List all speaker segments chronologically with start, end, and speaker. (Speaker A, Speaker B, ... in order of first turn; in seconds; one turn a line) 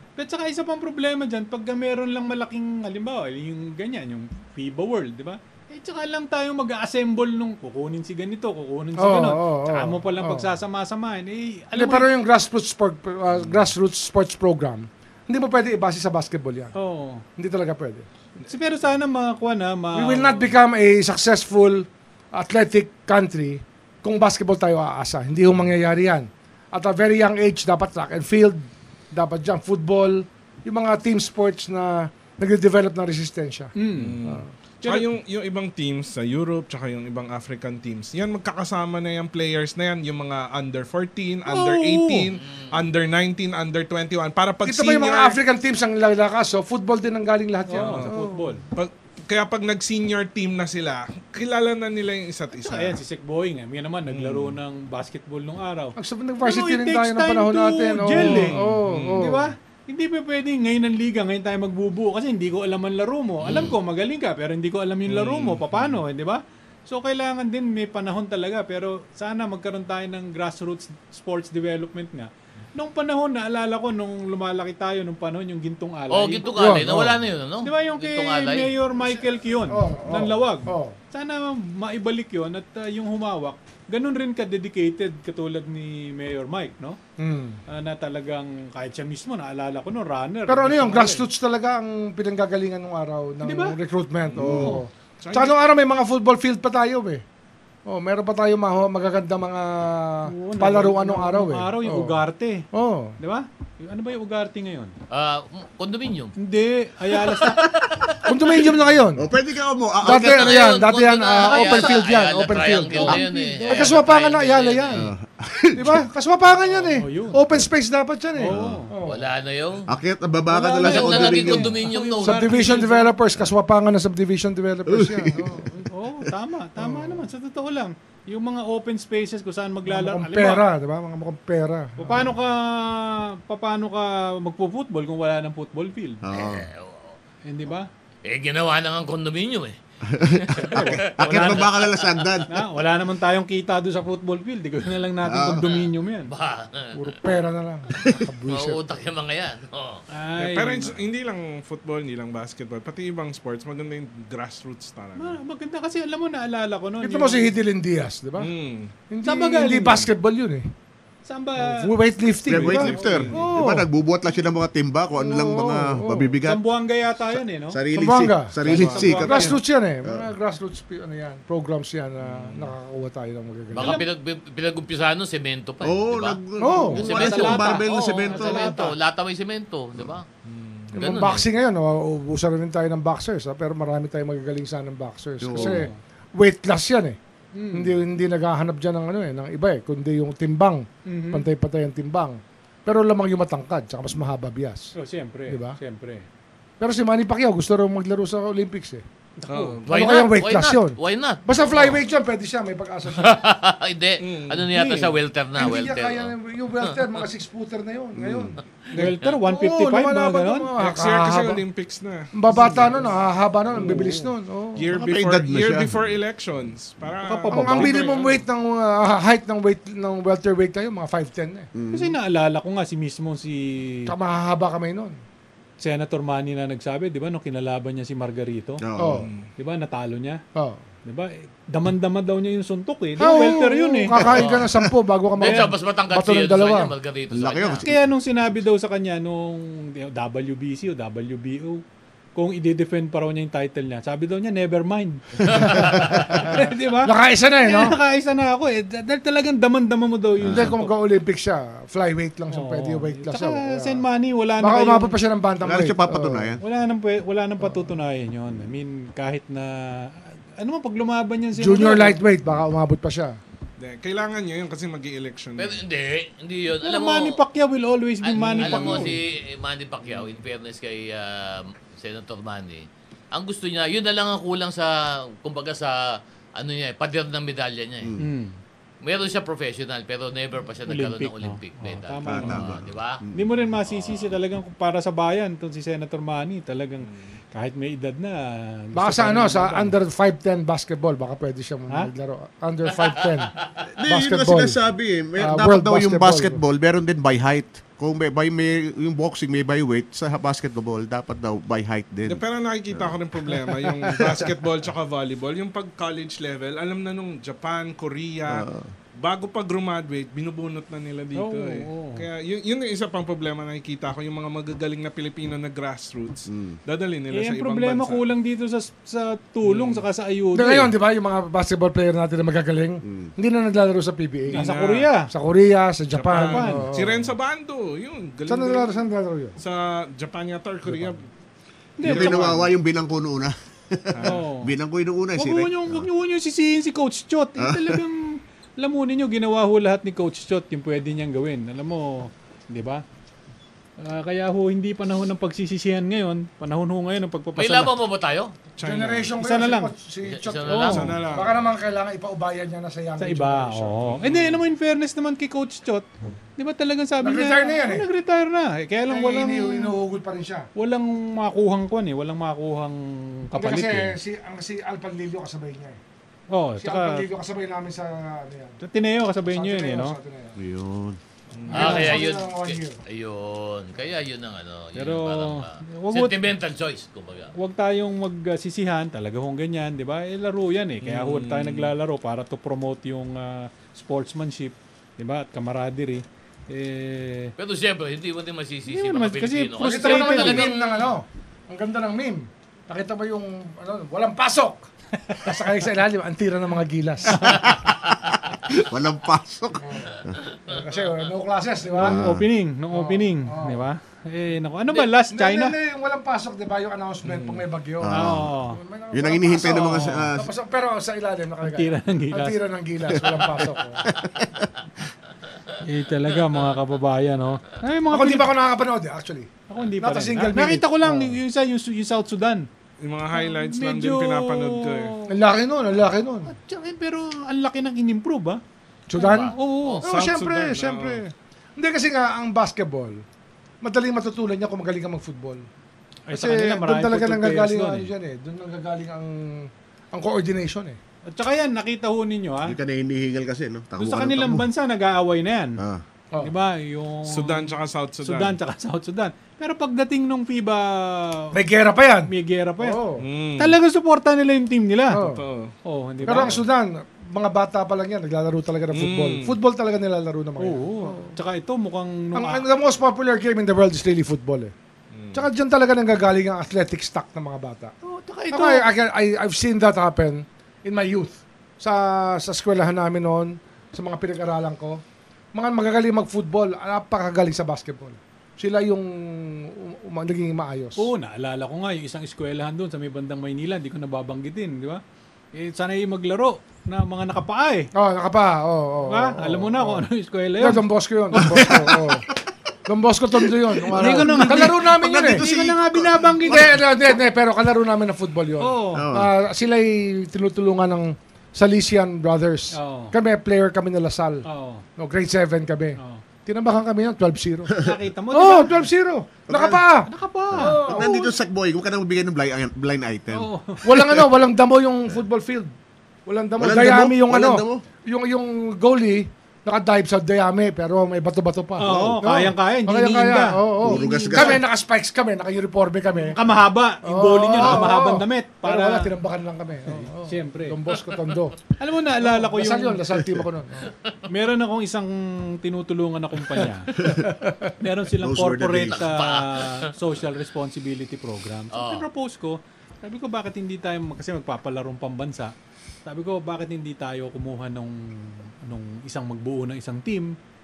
Speaker A: 0.2-12.1
Speaker B: 9.0-10.5
Speaker B: 11.7-16.7
Speaker A: 16.8-17.2
Speaker B: 17.4-18.1
Speaker A: 18.4-20.5
Speaker B: 19.9-33.7
Speaker A: 33.8-34.1
Speaker C: 33.9-45.4
Speaker A: 41.5-42.3
Speaker D: 42.4-42.8
Speaker B: 44.6-48.5
Speaker A: 47.7-48.6
Speaker C: 47.9-48.1
Speaker C: 48.7-53.0
Speaker A: 52.5-58.6
Speaker C: 54.1-54.6
Speaker B: 56.0-59.5
Speaker C: 58.1-59.3
Speaker A: 59.1-76.5
Speaker C: 65.1-66.0
Speaker D: 76.1-78.7
Speaker B: 76.5-77.2
Speaker A: 77.6-87.0
Speaker B: 79.7-81.0
Speaker B: 87.2-87.6
Speaker A: 87.7-91.2
Speaker B: 90.5-97.2
Speaker A: 93.4-93.8
Speaker C: 94.3-94.7
Speaker A: 94.4-94.8
Speaker C: 95.2-95.5
Speaker B: 97.8-102.2
Speaker A: 100.2-102.7
Speaker B: 102.7-103.2
Speaker A: 103.2-104.9
Speaker D: 105.1-106.3
Speaker A: 106.4-107.7
Speaker D: 107.1-108.7
Speaker B: 108.2-109.3
Speaker E: 109.2-110.7
Speaker D: 110.0-115.1
Speaker B: 110.0-115.1
Speaker A: 111.4-112.0
Speaker A: 112.8-114.0
Speaker E: 114.9-116.1
Speaker B: 115.7-119.2
Speaker A: 116.7-117.4
Speaker A: 118.4-118.9
Speaker E: 118.5-118.8
Speaker D: 119.0-119.9
Speaker E: 119.9-121.7
Speaker A: 120.5-123.1
Speaker D: 120.8-122.8
Speaker B: 122.2-125.7
Speaker E: 124.9-125.7
Speaker A: 125.7-130.6
Speaker B: 126.8-127.2
Speaker B: 129.8-132.3
Speaker A: 132.0-136.2
Speaker E: 136.2-136.7
Speaker D: 136.3-137.2
Speaker A: 137.4-137.9
Speaker D: 138.2-142.4
Speaker E: 140.1-142.5
Speaker A: 140.6-141.7
Speaker A: 142.5-146.3
Speaker E: 145.2-145.8
Speaker D: 146.3-147.2
Speaker B: 146.9-148.8
Speaker D: 148.0-150.0
Speaker A: 150.1-150.9
Speaker C: 150.4-155.4
Speaker A: 155.2-157.5
Speaker B: 157.0-158.5
Speaker C: 158.4-158.9
Speaker B: 159.1-160.7
Speaker A: 159.2-160.1
Speaker A: 161.2-161.9
Speaker B: 161.6-163.9
Speaker E: 162.5-166.6
Speaker C: 162.6-163.5
Speaker A: 162.9-163.5
Speaker B: 165.2-166.3
Speaker A: 166.4-167.8
Speaker E: 167.3-170.3
Speaker B: 167.9-174.0
Speaker C: 168.6-169.5
Speaker A: 169.2-169.6
Speaker C: 172.3-172.7
Speaker D: 173.7-176.4
Speaker A: 173.8-174.1
Speaker E: 175.8-178.8
Speaker B: 176.6-177.0
Speaker A: 176.9-178.9
Speaker D: 176.9-180.2
Speaker C: 180.4-181.0
Speaker B: 180.9-187.2
Speaker D: 181.0-181.4
Speaker E: 185.4-185.9
Speaker A: 185.5-186.0
Speaker A: 187.5-187.9
Speaker B: 187.7-194.9
Speaker A: 191.1-191.5
Speaker A: 194.9-196.2
Speaker B: 195.5-195.8
Speaker B: 196.8-199.0
Speaker A: 199.4-199.8
Speaker C: 199.5-200.0
Speaker D: 199.9-202.0
Speaker B: 199.9-203.4
Speaker D: 203.1-207.0
Speaker C: 204.2-204.7
Speaker B: 205.6-208.6
Speaker E: 208.2-208.6
Speaker A: 208.9-210.7
Speaker B: 209.4-211.6
Speaker C: 210.8-213.1
Speaker B: 212.3-214.9
Speaker A: 212.5-213.1
Speaker A: 213.8-214.3
Speaker C: 213.8-214.1
Speaker C: 214.7-218.4
Speaker E: 214.9-216.1
Speaker A: 217.2-218.0
Speaker B: 217.5-221.7
Speaker E: 221.7-222.2
Speaker A: 221.9-224.1
Speaker B: 224.1-225.2
Speaker A: 225.8-228.8
Speaker E: 228.8-229.3
Speaker B: 229.0-229.3
Speaker C: 229.2-229.5
Speaker A: 229.6-230.4
Speaker B: 230.5-230.8
Speaker A: 231.1-234.2
Speaker B: 233.2-236.9
Speaker E: 234.2-234.9
Speaker D: 234.3-234.7
Speaker D: 235.4-237.8
Speaker E: 237.3-238.1
Speaker A: 237.8-241.8
Speaker A: 242.3-250.9
Speaker D: 245.5-246.4
Speaker E: 245.5-246.2
Speaker B: 245.6-248.0
Speaker E: 250.4-250.7
Speaker B: 250.4-254.0
Speaker A: 252.5-255.2
Speaker B: 254.6-256.5
Speaker E: 255.6-256.6
Speaker A: 256.6-262.2
Speaker B: 257.6-257.9
Speaker B: 261.6-263.4
Speaker C: 263.8-265.8
Speaker D: 265.6-267.4
Speaker A: 266.8-269.2
Speaker D: 268.2-278.1
Speaker C: 268.4-269.2
Speaker C: 270.0-270.4
Speaker E: 278.0-278.3
Speaker A: 278.2-278.6
Speaker D: 279.0-283.2
Speaker A: 280.9-282.7
Speaker E: 282.2-283.5
Speaker A: 283.3-289.9
Speaker D: 283.9-284.2
Speaker C: 287.0-287.4
Speaker B: 288.9-293.5
Speaker E: 293.9-304.5
Speaker B: 294.1-294.8
Speaker B: 295.4-296.6
Speaker C: 302.2-308.6
Speaker E: 308.5-308.9
Speaker C: 309.2-318.2
Speaker A: 311.3-312.2
Speaker E: 316.5-316.8
Speaker A: 317.3-320.9
Speaker C: 319.6-320.0
Speaker B: 320.5-324.7
Speaker E: 323.0-323.3
Speaker C: 324.5-325.1
Speaker A: 324.5-325.3
Speaker B: 325.3-327.3
Speaker C: 326.1-329.0
Speaker A: 326.4-326.9
Speaker B: 328.5-329.6
Speaker C: 329.6-331.2
Speaker A: 332.0-332.5
Speaker C: 332.0-332.7
Speaker E: 332.0-336.1
Speaker C: 334.1-334.4
Speaker A: 334.2-334.7
Speaker A: 335.4-343.0
Speaker E: 337.6-338.0
Speaker A: 344.0-347.9
Speaker D: 347.6-348.5
Speaker C: 348.8-349.4
Speaker B: 348.8-354.3
Speaker A: 349.4-349.9
Speaker D: 350.2-351.3
Speaker A: 350.7-351.1
Speaker C: 350.7-351.6
Speaker A: 353.2-356.1
Speaker C: 354.2-354.6
Speaker A: 356.6-359.9
Speaker B: 357.2-358.1
Speaker B: 359.1-360.7
Speaker A: 360.8-364.2
Speaker B: 363.6-366.0
Speaker A: 366.5-367.2
Speaker B: 366.8-368.8
Speaker A: 368.8-370.2
Speaker B: 369.4-370.6
Speaker E: 370.6-371.2
Speaker C: 371.5-372.1
Speaker B: 371.7-373.0
Speaker A: 371.7-372.1
Speaker D: 371.7-377.5
Speaker A: 374.9-376.4
Speaker A: 377.5-387.5
Speaker C: 381.0-381.9
Speaker D: 387.6-390.8
Speaker A: 388.9-390.7
Speaker B: 389.8-397.7
Speaker A: 395.3-395.5
Speaker A: 397.3-397.7
Speaker E: 397.5-400.4
Speaker B: 399.8-402.2
Speaker A: 401.9-405.8
Speaker E: 402.0-402.4
Speaker B: 402.9-403.8
Speaker B: 405.0-414.1
Speaker C: 407.2-407.6
Speaker E: 408.0-408.5
Speaker A: 408.1-408.8
Speaker E: 409.1-410.5
Speaker A: 409.7-410.3
Speaker A: 411.6-412.6
Speaker E: 413.1-414.8
Speaker A: 415.8-418.5
Speaker B: 418.1-421.4
Speaker A: 419.7-422.7
Speaker C: 423.0-425.1
Speaker A: 423.3-425.3
Speaker B: 425.3-426.5
Speaker A: 426.4-428.6
Speaker B: 429.1-433.2
Speaker A: 429.2-430.0
Speaker D: 429.2-430.0
Speaker C: 430.0-431.2
Speaker B: 433.8-435.6
Speaker A: 436.3-438.1
Speaker B: 436.3-441.0
Speaker A: 441.3-442.8
Speaker E: 442.6-444.7
Speaker A: 444.0-445.8
Speaker A: 446.4-451.5
Speaker C: 447.2-448.6
Speaker B: 451.5-453.2
Speaker A: 452.3-453.0
Speaker C: 453.2-453.8
Speaker A: 453.6-455.2
Speaker B: 455.1-455.4
Speaker C: 455.2-456.6
Speaker A: 455.8-456.6
Speaker B: 456.2-461.3
Speaker C: 458.9-459.6
Speaker A: 460.6-462.6
Speaker B: 462.3-464.7
Speaker C: 465.1-465.4
Speaker B: 465.3-467.9
Speaker A: 468.0-468.9
Speaker B: 468.5-475.0
Speaker B: 475.5-481.1
Speaker A: 480.9-485.0
Speaker A: 485.5-487.9
Speaker B: 487.9-490.1
Speaker A: 489.1-492.0
Speaker B: 490.6-492.3
Speaker E: 491.4-492.1
Speaker B: 492.9-495.5
Speaker E: 493.5-496.8
Speaker A: 493.9-496.8
Speaker B: 496.4-504.4
Speaker A: 498.6-499.1
Speaker E: 498.9-499.3
Speaker A: 502.7-503.1
Speaker A: 504.4-504.8
Speaker B: 505.0-507.8
Speaker A: 507.8-508.8
Speaker B: 508.3-511.3
Speaker E: 509.5-509.8
Speaker A: 510.1-511.1
Speaker E: 510.5-514.3
Speaker A: 513.3-513.9
Speaker B: 513.8-515.7
Speaker B: 516.3-526.4
Speaker E: 516.6-517.8
Speaker A: 521.8-524.6
Speaker E: 521.8-522.2
Speaker E: 523.8-524.6
Speaker A: 526.2-529.1
Speaker B: 527.0-531.6
Speaker A: 529.9-530.8
Speaker A: 531.8-533.0
Speaker B: 532.2-533.9
Speaker A: 534.3-536.9
Speaker E: 537.0-537.3
Speaker B: 537.0-537.7
Speaker A: 537.8-545.5
Speaker E: 538.2-539.0
Speaker D: 538.9-539.9
Speaker D: 541.7-542.0
Speaker A: 546.0-550.4